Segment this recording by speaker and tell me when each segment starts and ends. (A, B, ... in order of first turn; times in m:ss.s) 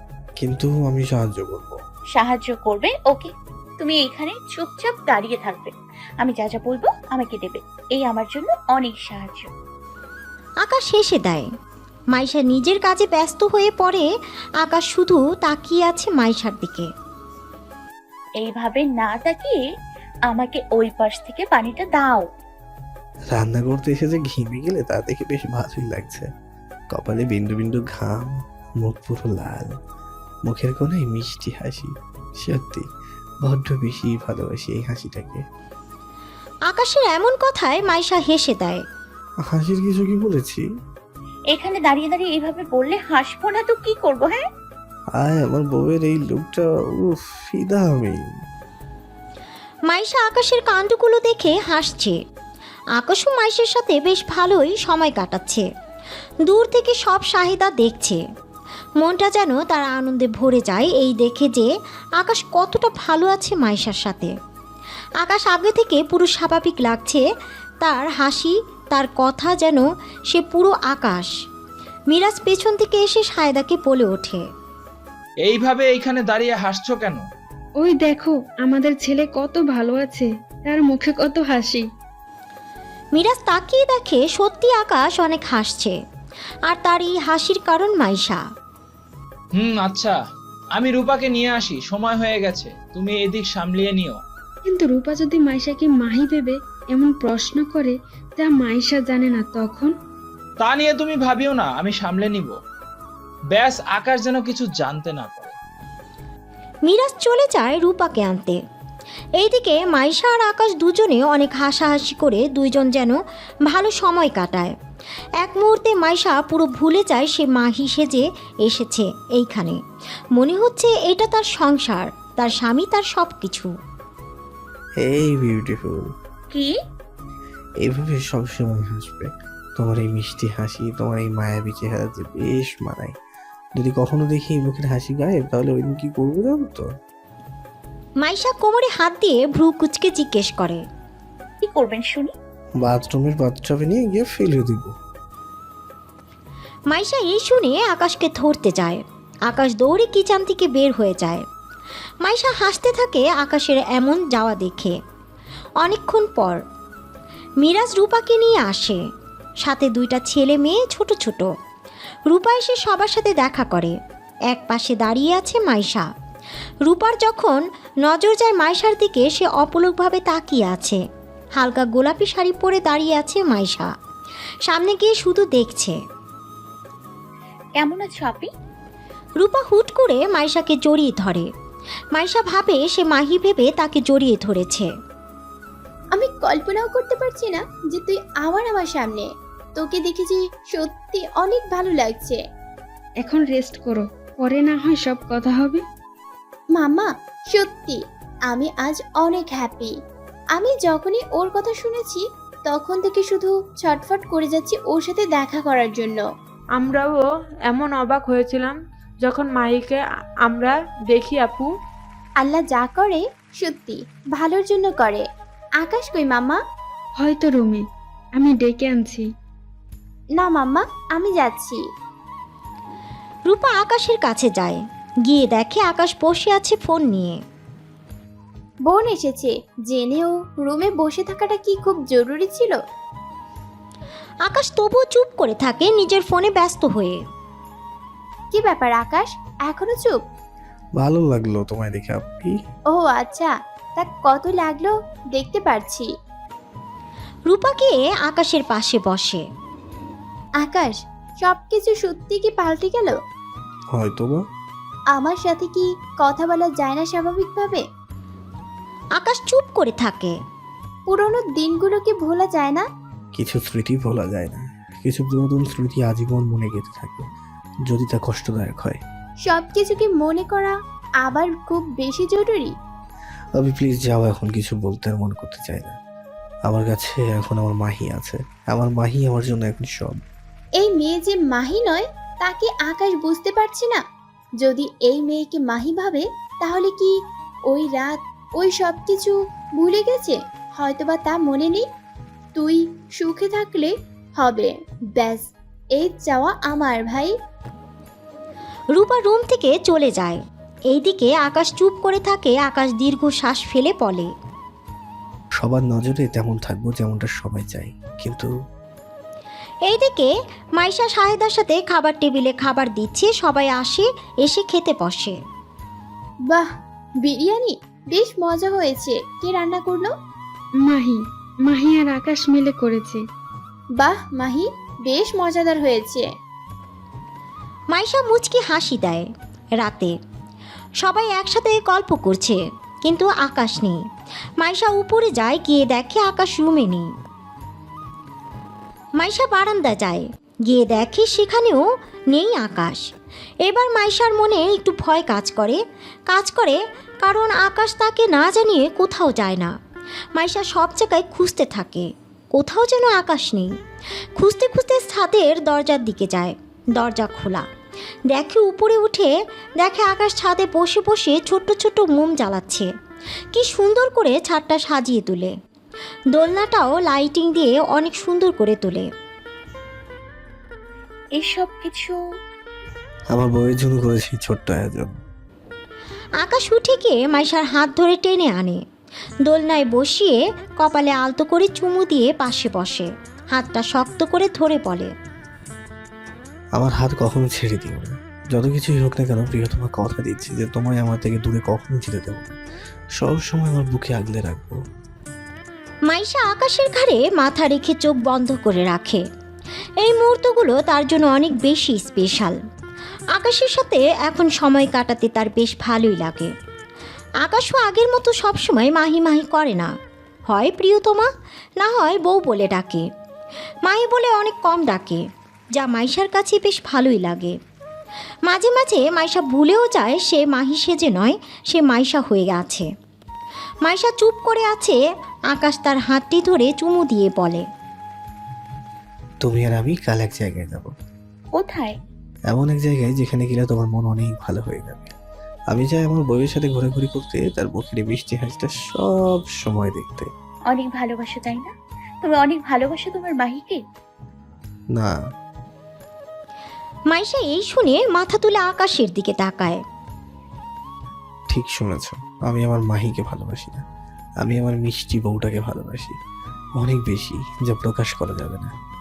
0:00.4-0:01.8 A
0:02.1-0:09.5 B
0:10.6-0:11.5 C
0:12.1-0:16.9 C
0:18.4-0:19.6 B
0:20.3-0:22.2 B
0:23.3-0:26.3 A
0:26.9-0:29.7 A
0:30.5-0:32.8 A
0:33.4-0:35.4 A
0:36.7-0:38.8 C
0:39.5-0:40.6 A
0:41.5-0:44.4 B
0:45.2-0:48.2 A
0:49.9-0:52.2 C
0:53.0-0:55.6 C
0:56.4-0:58.2 C
0:59.0-1:04.3 C
1:05.2-1:07.2 C
1:07.8-1:11.3 C
1:12.1-1:14.4 C
1:15.4-1:17.2 D
1:17.8-1:21.9 E
1:23.1-1:26.0 C
1:26.7-1:28.4 C
1:29.5-1:30.2 D
1:30.7-1:34.2 D
1:34.6-1:39.9 E
1:40.6-1:42.6 D
1:43.5-1:45.6 D
1:46.9-1:48.6 C
1:49.4-1:54.7 C
1:55.4-1:59.8 C
2:00.4-2:03.7 C
2:05.0-2:06.1 A
2:06.5-2:06.8 B
2:07.8-2:13.2 A
2:13.8-2:16.8 A
2:18.2-2:20.8 C
2:21.6-2:22.3 B
2:22.8-2:24.9 A
2:26.9-2:31.4 C
2:32.2-2:35.0 C
2:35.8-2:36.6 C
2:37.6-2:39.0 C
2:39.6-2:41.5 C
2:42.3-2:44.0 C
2:44.5-2:46.1 C
2:46.8-2:51.0 C
2:51.6-2:53.9 C
2:54.7-2:56.0 C
2:57.8-2:58.5 B
2:59.4-3:01.5 C
3:02.1-3:04.9 C
3:06.1-3:12.4 F
3:13.2-3:15.8 E
3:16.8-3:18.0 F
3:18.5-3:19.9 F
3:20.6-3:26.2 F
3:26.8-3:27.1 E
3:27.1-3:28.7 G
3:27.8-3:28.7 E
3:29.2-3:30.0 E
3:29.3-3:30.0 G
3:30.5-3:31.7 G
3:31.4-3:31.7 E
3:32.4-3:35.2 F
3:35.8-3:36.6 F
3:37.2-3:37.8 E
3:38.4-3:39.3 E
3:40.4-3:41.8 F
3:43.5-3:47.4 C
3:48.9-3:52.8 F
3:54.4-3:57.2 C
3:58.5-4:00.2 F
4:01.0-4:02.5 A
4:02.9-4:06.1 F
4:07.5-4:09.4 C
4:10.6-4:13.2 F
4:13.9-4:14.4 A
4:15.1-4:17.8 F
4:19.2-4:20.4 C
4:21.1-4:22.8 F
4:23.4-4:27.3 A
4:27.9-4:29.0 A
4:29.4-4:32.7 F
4:33.6-4:36.0 A
4:36.7-4:40.2 A
4:40.8-4:44.0 F
4:44.6-4:47.1 F
4:47.7-4:51.8 F
4:52.5-4:57.3 F
4:58.9-5:04.3 C
5:05.6-5:08.5 A
5:09.9-5:15.4 C
5:17.2-5:20.1 F
5:20.8-5:23.2 E
5:24.0-5:26.3 F
5:27.9-5:30.1 C
5:31.0-5:34.0 C
5:34.6-5:37.1 C
5:39.2-5:43.0 C
5:43.6-5:49.7 C
5:50.3-5:53.7 C
5:54.4-5:57.6 C
5:58.3-6:02.9 C
6:03.5-6:05.5 C
6:06.3-6:09.1 C
6:11.4-6:12.2 B
6:13.3-6:15.2 A
6:16.4-6:18.8 C
6:19.4-6:25.1 C
6:26.8-6:32.6 A
6:33.2-6:34.8 A
6:36.1-6:39.2 C
6:40.0-6:42.6 C
6:43.3-6:46.5 C
6:47.4-6:49.9 C
6:50.5-6:53.1 C
6:53.8-6:55.2 C
6:55.8-6:57.6 C
6:58.5-7:02.9 C
7:03.8-7:05.0 C
7:05.5-7:07.7 C
7:09.4-7:10.9 A
7:11.5-7:11.9 B
7:12.5-7:15.1 A
7:15.7-7:20.3 A
7:20.7-7:21.7 B
7:22.2-7:23.8 B
7:27.1-7:29.8 C
7:31.5-7:33.8 A
7:34.4-7:36.2 A
7:36.8-7:38.8 A